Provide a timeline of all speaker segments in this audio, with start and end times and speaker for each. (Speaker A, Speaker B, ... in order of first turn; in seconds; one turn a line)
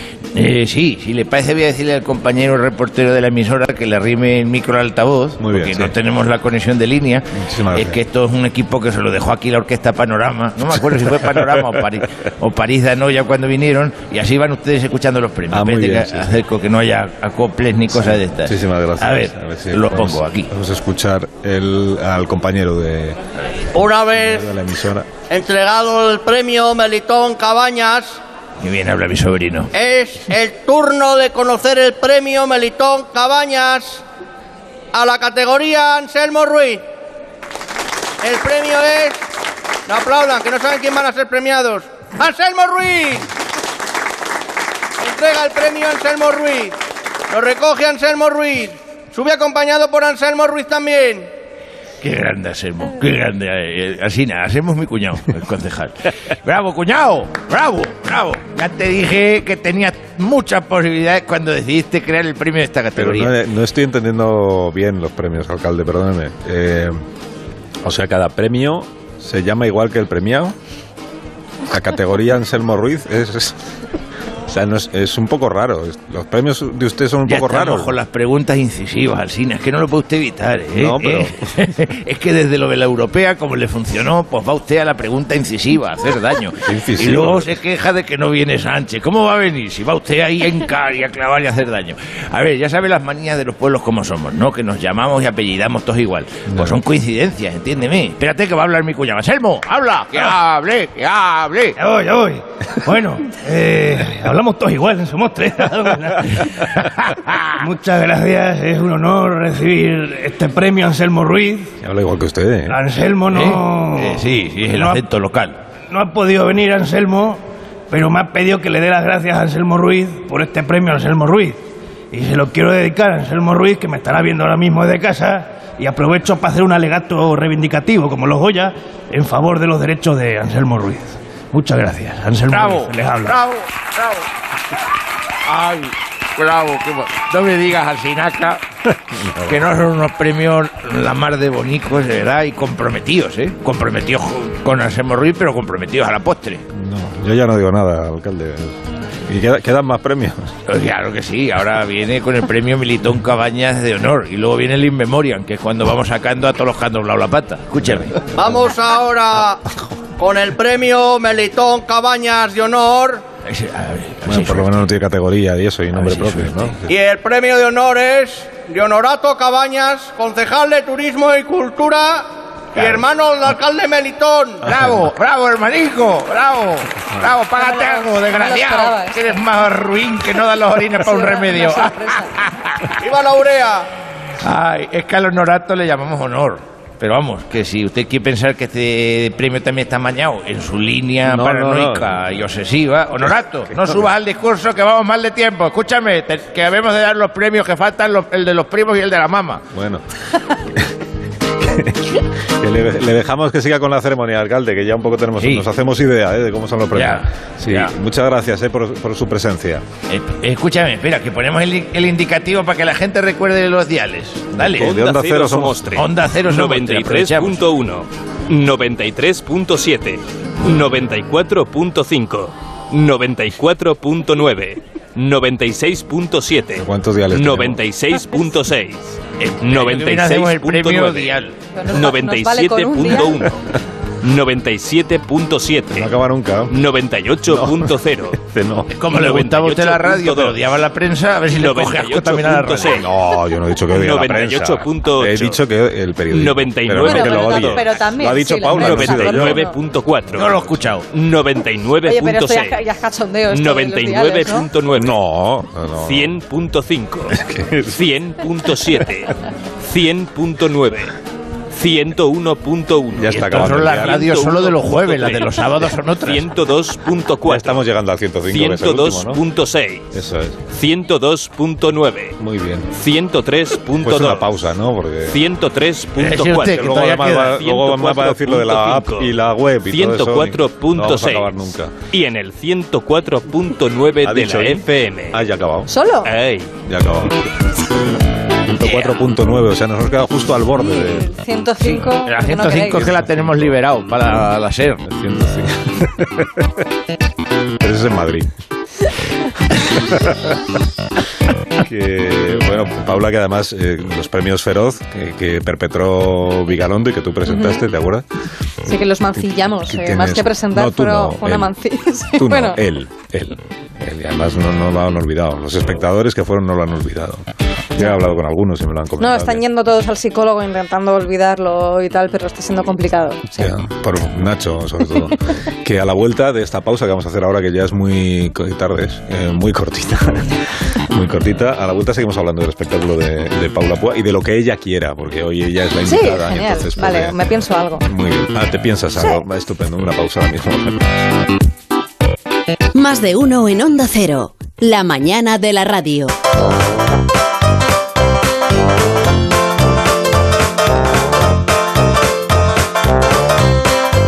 Speaker A: 0.3-20.5
Speaker B: 5.4-5.9
Speaker B: 7.3-8.0
Speaker B: 15.5-16.4
Speaker B: 17.9-23.2
Speaker C: 23.7-24.4
Speaker B: 24.1-25.1
Speaker C: 25.3-28.2
Speaker A: 28.6-29.7
Speaker C: 29.7-34.0
Speaker C: 34.9-36.8
Speaker C: 38.2-39.2
Speaker C: 39.9-43.3
Speaker C: 45.0-46.7
Speaker C: 47.3-51.3
Speaker A: 52.0-63.3
Speaker B: 63.0-67.0
Speaker B: 67.8-70.5
Speaker B: 71.7-73.6
Speaker B: 74.5-78.0
Speaker A: 77.3-101.8
Speaker B: 80.7-81.4
Speaker B: 86.6-87.5
Speaker B: 96.5-96.8
Speaker D: 101.8-106.6
Speaker A: 106.7-107.5
Speaker D: 107.6-111.7
Speaker B: 111.8-112.8
Speaker D: 112.7-115.0
Speaker A: 113.3-115.5
Speaker D: 115.9-121.6
Speaker D: 122.1-133.4
Speaker A: 132.5-133.6
Speaker A: 135.4-138.6
Speaker B: 139.1-139.7
Speaker A: 139.4-146.6
Speaker B: 146.7-150.5
Speaker A: 150.7-158.3
Speaker B: 157.8-158.1
Speaker C: 158.4-159.6
Speaker C: 160.2-163.2
Speaker A: 163.4-164.7
Speaker B: 164.2-166.9
Speaker A: 165.9-166.8
Speaker C: 166.9-174.6
Speaker A: 172.7-173.0
Speaker A: 174.6-183.0
Speaker E: 177.6-179.2
Speaker E: 181.0-182.3
Speaker C: 183.0-183.9
Speaker A: 184.4-199.6
Speaker B: 191.2-192.4
Speaker B: 193.2-194.1
Speaker B: 199.7-200.0
Speaker B: 201.6-209.8
Speaker A: 205.4-205.7
Speaker A: 206.9-207.9
Speaker A: 210.1-214.9
Speaker B: 214.6-216.1
Speaker F: 214.8-231.3
Speaker A: 215.9-217.6
Speaker B: 226.8-227.8
Speaker A: 229.4-231.5
Speaker E: 231.7-233.5
Speaker F: 231.9-233.6
Speaker F: 234.2-236.1
Speaker B: 235.9-236.7
Speaker F: 236.7-238.4
Speaker B: 237.5-238.9
Speaker A: 238.9-243.1
Speaker F: 239.1-240.7
Speaker F: 241.5-243.1
Speaker B: 242.9-249.6
Speaker F: 243.9-245.6
Speaker F: 246.3-248.1
Speaker E: 246.9-249.8
Speaker F: 248.7-252.8
Speaker A: 249.2-249.6
Speaker A: 250.3-251.1
Speaker E: 252.0-254.7
Speaker F: 253.5-255.1
Speaker B: 254.9-256.4
Speaker F: 256.0-261.1
Speaker B: 257.3-258.0
Speaker F: 261.7-267.8
Speaker B: 263.1-264.3
Speaker A: 263.3-266.5
Speaker B: 267.4-269.4
Speaker F: 268.5-270.0
Speaker B: 270.1-270.6
Speaker F: 270.7-272.4
Speaker B: 272.4-272.9
Speaker F: 272.9-274.4
Speaker B: 274.0-275.4
Speaker F: 275.3-277.0
Speaker A: 276.2-277.6
Speaker B: 276.6-281.9
Speaker F: 277.5-279.3
Speaker F: 279.9-281.5
Speaker F: 282.1-285.4
Speaker B: 284.2-285.9
Speaker E: 285.9-286.3
Speaker F: 286.2-286.7
Speaker B: 286.9-287.5
Speaker B: 288.6-291.4
Speaker F: 288.8-289.3
Speaker E: 290.8-293.1
Speaker A: 292.2-295.0
Speaker B: 292.7-293.8
Speaker B: 295.0-296.8
Speaker B: 297.8-298.5
Speaker B: 299.8-300.6
Speaker B: 301.8-308.2
Speaker E: 307.5-307.8
Speaker E: 308.9-312.8
Speaker B: 309.8-311.7
Speaker B: 312.4-319.6
Speaker E: 319.2-323.8
Speaker B: 323.6-341.3
Speaker E: 336.0-338.1
Speaker G: 342.9-346.3